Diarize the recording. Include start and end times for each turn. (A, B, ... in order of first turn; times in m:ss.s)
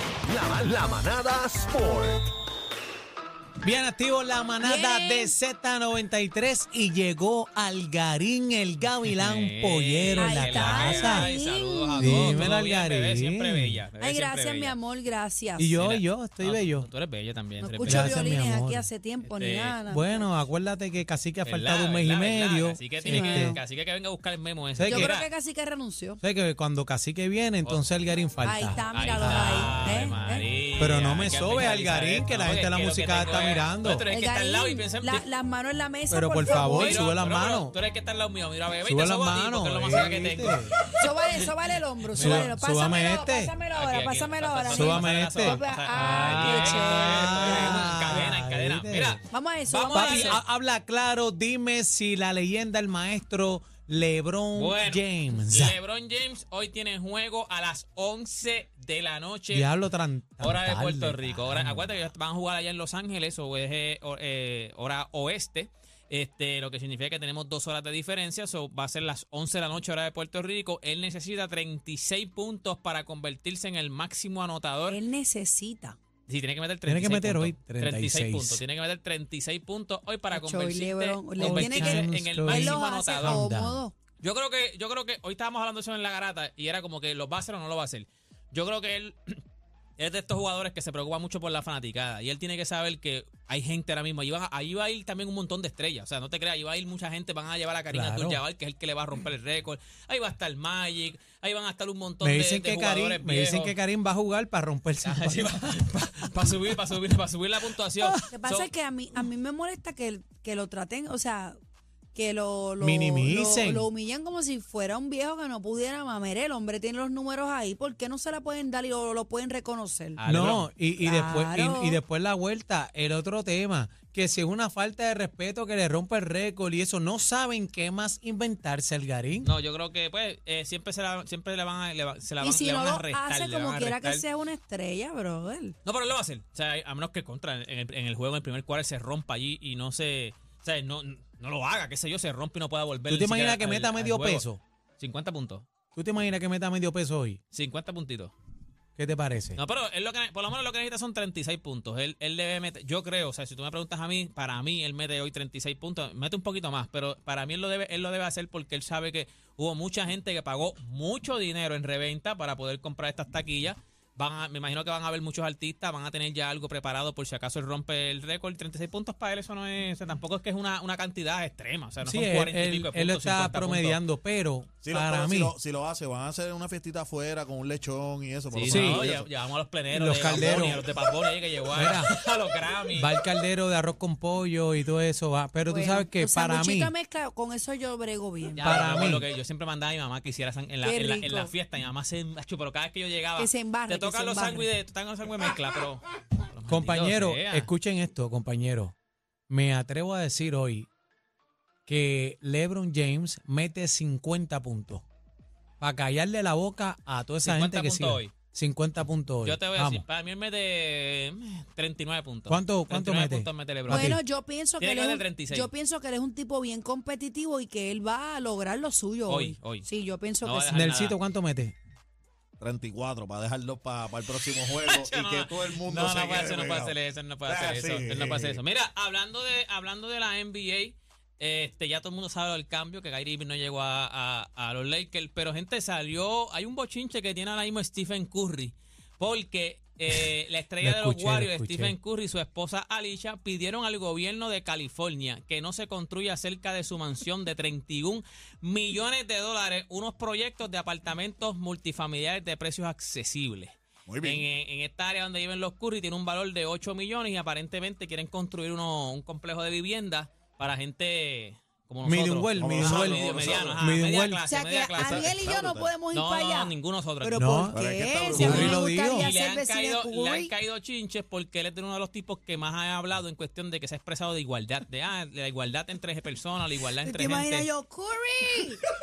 0:00.2-0:02.2 A
0:03.6-0:11.3 B
0:04.6-0:05.3 C
0:09.0-0:14.8 D
0:10.2-0:12.5 C
0:12.0-0:13.8 B
0:14.0-0:15.8 C
0:15.6-0:16.9 B
0:15.8-0:18.2 D
0:17.6-0:20.3 C
0:17.8-0:18.9 B
0:19.2-0:19.8 D
0:19.9-0:23.6 B
0:21.4-0:25.3 D
0:23.0-0:23.6 C
0:24.8-0:25.1 B
0:24.8-0:26.2 C
0:26.2-0:30.1 B
0:28.4-0:30.4 C
0:28.9-0:35.2 D
0:30.8-0:34.0 B
0:34.1-0:37.1 C
0:36.1-0:37.7 B
0:36.5-0:41.3 D
0:38.8-0:40.7 B
0:41.0-0:47.9 C
0:42.1-0:42.5 D
0:42.2-0:43.5 B
0:43.7-0:50.4 D
0:44.7-0:49.2 B
0:49.3-0:50.4 C
0:49.9-0:55.8 B
0:54.5-0:59.7 D
0:59.5-1:01.9 B
1:00.4-1:15.0 D
1:14.9-1:16.0 C
1:16.3-1:23.4 D
1:16.8-1:18.6 B
1:20.3-1:23.9 C
1:21.4-1:23.8 B
1:24.2-1:29.4 D
1:30.0-1:43.8 D
1:37.9-1:38.4 B
1:42.2-1:45.8 B
1:45.0-1:48.7 D
1:48.1-1:51.6 C
1:52.1-2:00.2 C
1:52.8-1:53.9 B
2:00.2-2:00.7 D
2:00.3-2:09.5 B
2:01.0-2:02.0 C
2:09.4-2:14.2 D
2:12.4-2:15.8 C
2:15.8-2:24.5 D
2:23.1-2:24.6 B
2:25.0-2:25.7 D
2:25.9-2:27.4 B
2:27.5-2:28.3 D
2:29.0-2:29.6 B
2:29.6-2:54.0 D
2:52.0-2:55.5 B
2:54.8-2:59.3 E
2:58.5-3:03.1 D
2:58.7-2:59.2 B
2:59.9-3:00.9 B
3:01.7-3:02.1 B
3:03.0-3:06.9 B
3:05.6-3:08.9 C
3:08.6-3:17.7 D
3:08.6-3:09.2 B
3:10.8-3:11.5 C
3:13.4-3:14.7 C
3:16.7-3:18.9 B
3:19.5-3:20.9 B
3:21.9-3:25.0 B
3:25.8-3:30.0 B
3:27.4-3:28.3 D
3:29.4-3:34.2 D
3:32.5-3:34.2 B
3:33.9-3:40.7 C
3:34.8-3:35.7 D
3:39.3-3:39.9 D
3:40.4-3:41.2 D
3:40.7-3:41.7 B
3:42.6-3:48.6 E
3:44.5-4:25.4 D
4:00.8-4:01.9 B
4:14.1-4:14.4 E
4:22.0-4:24.4 B
4:22.6-4:23.8 E
4:24.4-4:30.5 C
4:24.9-4:25.9 E
4:26.1-4:27.5 D
4:27.4-4:27.8 B
4:27.7-4:28.8 E
4:28.3-4:29.3 B
4:28.4-4:37.7 D
4:37.0-4:38.8 C